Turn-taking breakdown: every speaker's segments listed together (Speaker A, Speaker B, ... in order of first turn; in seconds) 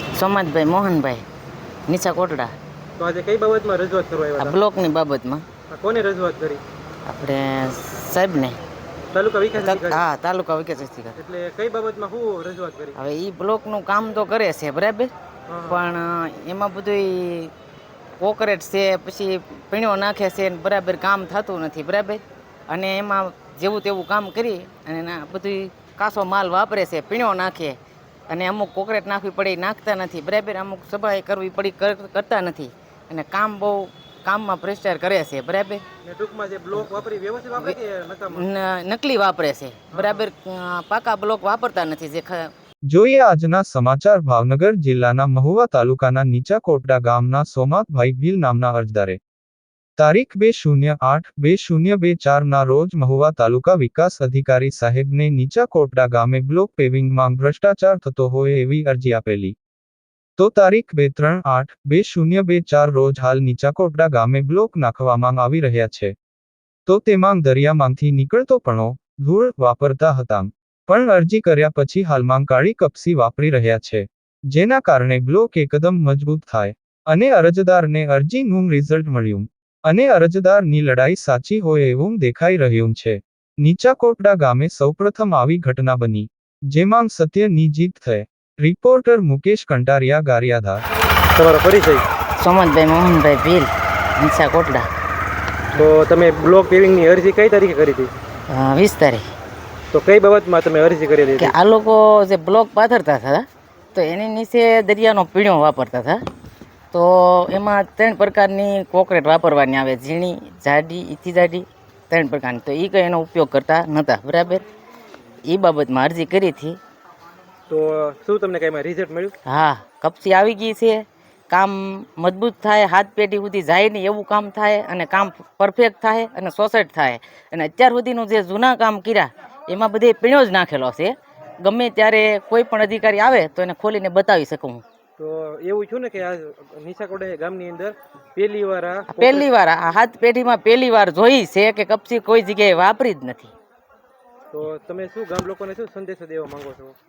Speaker A: 0.1-1.2, 1.9-2.5, 4.4-5.5, 7.0-8.6, 9.6-11.2, 12.9-15.1, 15.6-17.5, 18.2-27.8, 28.3-35.8, 38.3-42.5, 92.4-94.9, 98.5-99.2, 101.4-106.2, 106.9-114.6, 115.4-116.8, 119.5-134.8, 139.1-143.5
Speaker B: 3.0-4.6, 5.7-6.6, 9.1-10.0, 11.2-12.9, 15.5-15.8, 36.0-38.5, 39.9-40.2, 91.3-92.0, 95.7-98.1, 99.9-101.5, 117.7-119.3, 135.2-139.5, 144.5-146.9
Speaker C: 42.9-49.2, 50.0-59.5, 60.4-66.1, 66.8-90.8